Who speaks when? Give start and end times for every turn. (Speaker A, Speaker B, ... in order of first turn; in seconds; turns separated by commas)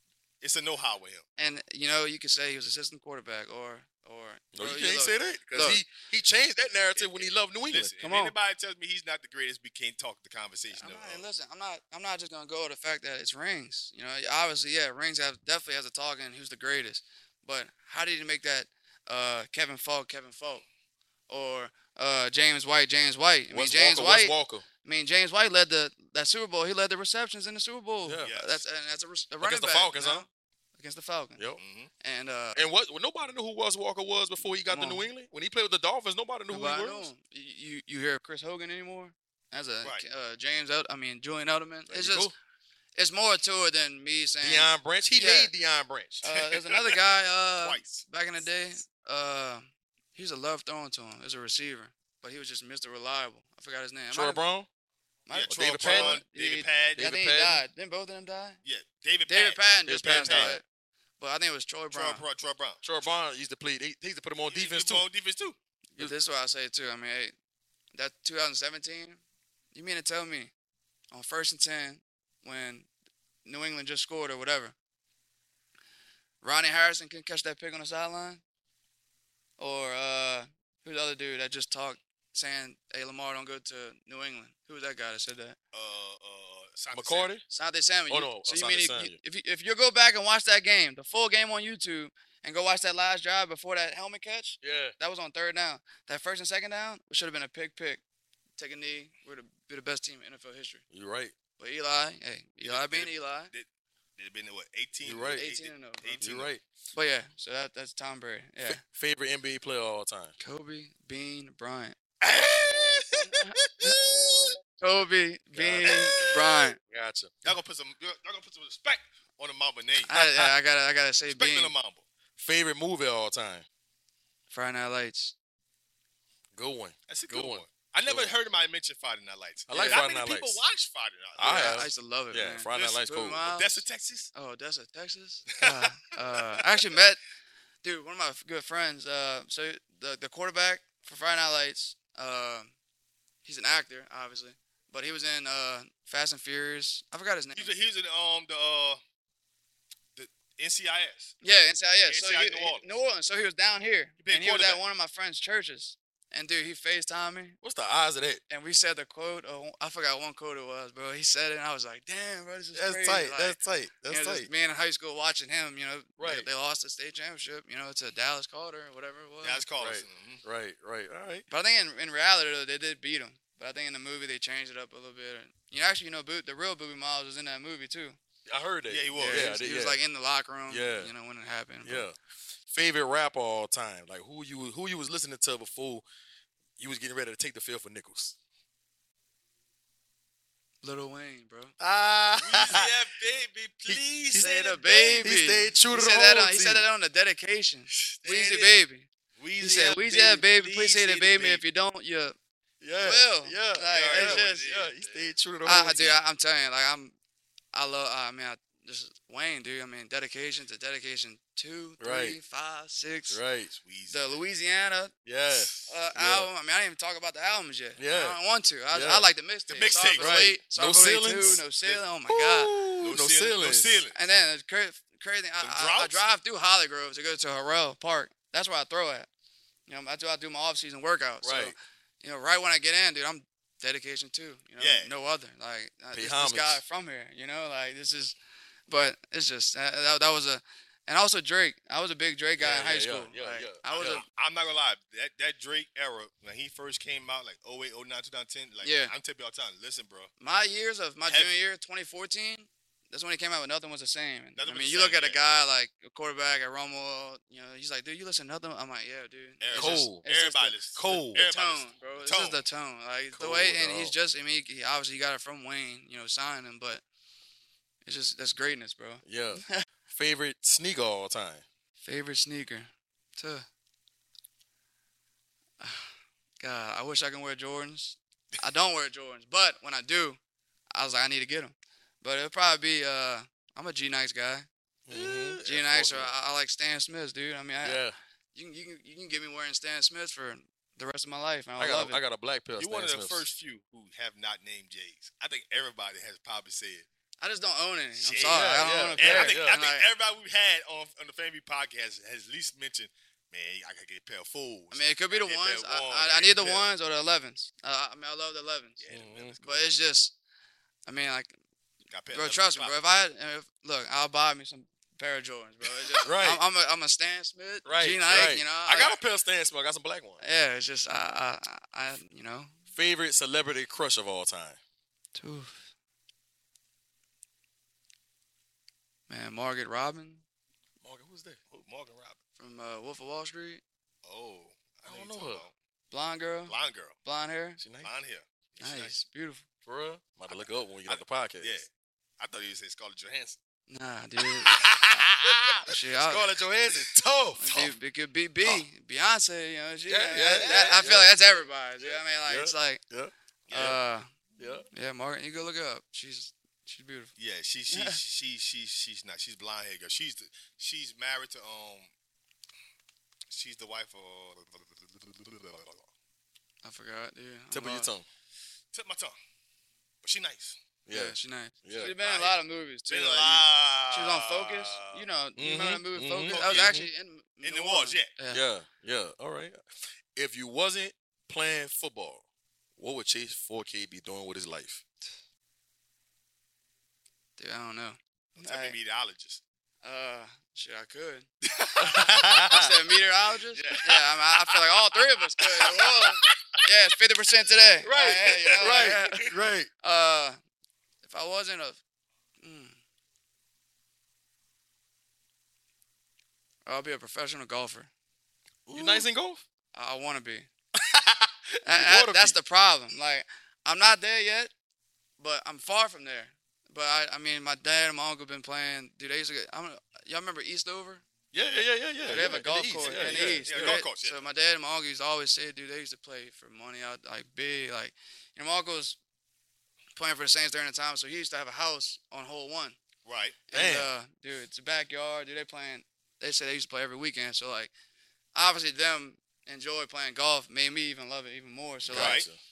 Speaker A: 0.4-1.2, Speaker B: 1.4-5.8, Speaker C: 4.5-7.9, Speaker A: 6.9-11.2, Speaker B: 8.0-8.3, Speaker B: 10.7-20.6, Speaker B: 21.3-31.4, Speaker C: 23.5-24.6, Speaker C: 28.1-28.3, Speaker A: 28.2-28.6, Speaker C: 29.4-30.2, Speaker A: 31.6-31.9, Speaker B: 32.0-32.6, Speaker C: 32.5-37.1, Speaker B: 34.7-35.1, Speaker B: 36.5-42.3, Speaker C: 41.9-42.3, Speaker B: 43.0-45.5, Speaker C: 44.4-46.3, Speaker B: 46.2-54.4, Speaker A: 47.6-48.0, Speaker C: 54.1-54.7, Speaker B: 55.3-58.6, Speaker A: 55.3-57.0, Speaker C: 55.5-56.2, Speaker C: 57.0-57.6, Speaker A: 58.6-60.6, Speaker B: 59.3-60.6, Speaker C: 59.9-60.6, Speaker B: 61.2-62.2, Speaker A: 61.9-62.8, Speaker C: 62.8-65.1, Speaker A: 64.5-65.6, Speaker B: 66.0-67.3, Speaker B: 67.9-69.2, Speaker B: 69.7-70.5, Speaker B: 71.1-72.9, Speaker B: 73.4-74.7, Speaker B: 76.4-78.4, Speaker B: 79.6-85.5, Speaker A: 85.7-87.3, Speaker C: 86.9-87.4, Speaker B: 87.5-98.0, Speaker C: 88.1-89.2, Speaker C: 94.6-94.9, Speaker B: 98.6-100.8, Speaker C: 100.9-101.3, Speaker B: 101.6-103.5, Speaker A: 102.6-103.7, Speaker A: 104.2-106.5, Speaker C: 105.0-105.4, Speaker B: 105.3-106.2, Speaker C: 106.2-106.6, Speaker B: 106.9-108.8, Speaker C: 108.6-110.3, Speaker B: 110.4-112.0, Speaker A: 112.2-114.5, Speaker B: 113.4-113.9, Speaker B: 114.8-116.8, Speaker C: 115.5-117.5, Speaker A: 115.8-116.3, Speaker A: 117.4-120.1, Speaker B: 120.0-121.7, Speaker C: 120.1-120.5, Speaker A: 121.3-122.0, Speaker C: 122.4-123.7, Speaker B: 124.5-125.3, Speaker C: 126.5-128.3, Speaker A: 127.1-131.8, Speaker C: 129.7-130.6, Speaker B: 129.7-130.0, Speaker C: 131.4-133.4, Speaker B: 131.4-133.8, Speaker A: 132.7-134.3, Speaker B: 134.3-137.2, Speaker A: 135.6-136.6, Speaker B: 137.8-142.7, Speaker B: 143.4-147.7, Speaker A: 147.5-149.0, Speaker A: 150.2-151.3, Speaker B: 151.4-157.6, Speaker A: 152.1-152.9, Speaker A: 154.2-154.8, Speaker C: 157.6-158.4, Speaker B: 158.5-169.6, Speaker C: 162.7-164.5, Speaker C: 166.2-166.5, Speaker A: 169.4-170.4, Speaker C: 169.8-171.4, Speaker B: 171.5-178.2, Speaker C: 178.4-180.0, Speaker A: 178.9-179.5, Speaker B: 179.1-182.1, Speaker C: 180.7-181.1, Speaker C: 181.8-186.0, Speaker C: 186.8-188.3, Speaker B: 190.8-191.7, Speaker C: 191.8-192.9, Speaker A: 192.4-195.3, Speaker C: 193.9-194.5, Speaker B: 194.4-199.1, Speaker C: 195.2-196.8, Speaker A: 198.2-198.7, Speaker A: 199.4-201.6, Speaker B: 199.6-202.3, Speaker C: 202.8-206.2, Speaker B: 203.0-204.7, Speaker A: 203.8-205.2, Speaker B: 205.6-207.1, Speaker B: 207.7-213.4, Speaker C: 212.0-212.4, Speaker C: 213.3-213.7, Speaker A: 213.8-214.2, Speaker B: 214.1-215.1, Speaker C: 215.2-216.5, Speaker B: 215.8-222.8, Speaker C: 218.0-218.4, Speaker C: 218.9-219.2, Speaker A: 219.7-220.3, Speaker C: 220.2-221.6, Speaker C: 222.3-224.0, Speaker A: 223.0-224.2, Speaker B: 224.1-229.3, Speaker A: 225.6-226.2, Speaker B: 229.9-238.3, Speaker C: 231.4-231.7, Speaker A: 234.8-235.1, Speaker C: 236.1-236.8, Speaker B: 238.9-244.2, Speaker C: 242.6-243.8, Speaker A: 243.9-250.3, Speaker B: 248.8-249.1, Speaker B: 250.4-267.0, Speaker A: 251.3-251.6, Speaker A: 254.6-255.4, Speaker A: 259.6-262.6, Speaker C: 259.7-260.2, Speaker C: 260.9-261.4, Speaker C: 263.3-264.1, Speaker B: 268.0-269.8, Speaker C: 269.2-271.6, Speaker B: 272.0-273.7, Speaker B: 275.8-280.4, Speaker B: 280.9-288.0, Speaker C: 285.1-286.3, Speaker C: 287.8-288.1, Speaker B: 288.5-292.2, Speaker C: 291.8-293.4, Speaker A: 292.8-297.1, Speaker B: 297.4-300.1, Speaker A: 298.1-306.9, Speaker C: 298.5-299.8, Speaker B: 304.9-309.0, Speaker A: 309.0-309.8, Speaker C: 309.1-309.6, Speaker B: 309.6-310.3, Speaker B: 311.1-311.6, Speaker A: 312.1-313.0, Speaker B: 312.3-319.1, Speaker C: 316.2-316.6, Speaker C: 317.8-320.4, Speaker B: 320.4-322.8, Speaker C: 322.9-324.8, Speaker B: 325.3-325.8, Speaker B: 329.3-330.4, Speaker C: 331.0-331.6, Speaker A: 331.7-332.4, Speaker B: 332.6-333.8, Speaker A: 334.2-335.7, Speaker C: 335.1-335.6, Speaker B: 336.1-337.8, Speaker A: 336.7-337.2, Speaker C: 337.8-338.1, Speaker A: 338.0-339.1, Speaker B: 338.8-339.6, Speaker C: 339.8-341.8, Speaker A: 341.1-343.6, Speaker B: 343.9-344.8, Speaker C: 344.7-347.9, Speaker A: 344.8-345.7, Speaker B: 345.8-346.4, Speaker B: 347.6-353.0, Speaker C: 350.1-351.3, Speaker A: 350.6-351.2, Speaker C: 352.0-354.0, Speaker A: 353.7-354.0, Speaker B: 353.7-354.3, Speaker C: 354.6-354.9, Speaker B: 354.9-357.3, Speaker A: 357.4-362.1, Speaker B: 357.9-358.2, Speaker A: 363.5-366.1, Speaker B: 366.8-368.1, Speaker C: 367.7-368.2, Speaker A: 368.9-369.4, Speaker A: 370.2-370.8, Speaker C: 371.1-372.1, Speaker B: 371.1-378.6, Speaker A: 372.0-372.6, Speaker A: 373.1-375.3, Speaker C: 375.6-377.1, Speaker A: 376.5-377.0, Speaker A: 377.6-378.3, Speaker C: 378.5-382.4, Speaker C: 383.0-385.0, Speaker B: 387.6-388.9, Speaker A: 388.6-389.6, Speaker B: 390.0-391.5, Speaker A: 391.7-392.2, Speaker B: 392.0-400.6, Speaker C: 392.0-392.9, Speaker A: 393.7-396.5, Speaker A: 398.0-399.4, Speaker C: 398.8-399.9, Speaker B: 401.2-402.0, Speaker B: 402.6-403.0, Speaker B: 406.9-408.1, Speaker C: 408.9-409.6, Speaker B: 408.9-409.2, Speaker B: 409.9-410.7, Speaker C: 410.9-412.6, Speaker B: 411.8-414.7, Speaker B: 415.4-421.2, Speaker C: 421.5-424.0, Speaker A: 422.2-424.4, Speaker B: 422.3-429.2, Speaker B: 430.1-433.0, Speaker A: 433.2-433.6, Speaker B: 433.7-437.9, Speaker C: 433.7-434.1, Speaker B: 438.5-442.4, Speaker C: 442.0-442.6, Speaker A: 442.1-442.5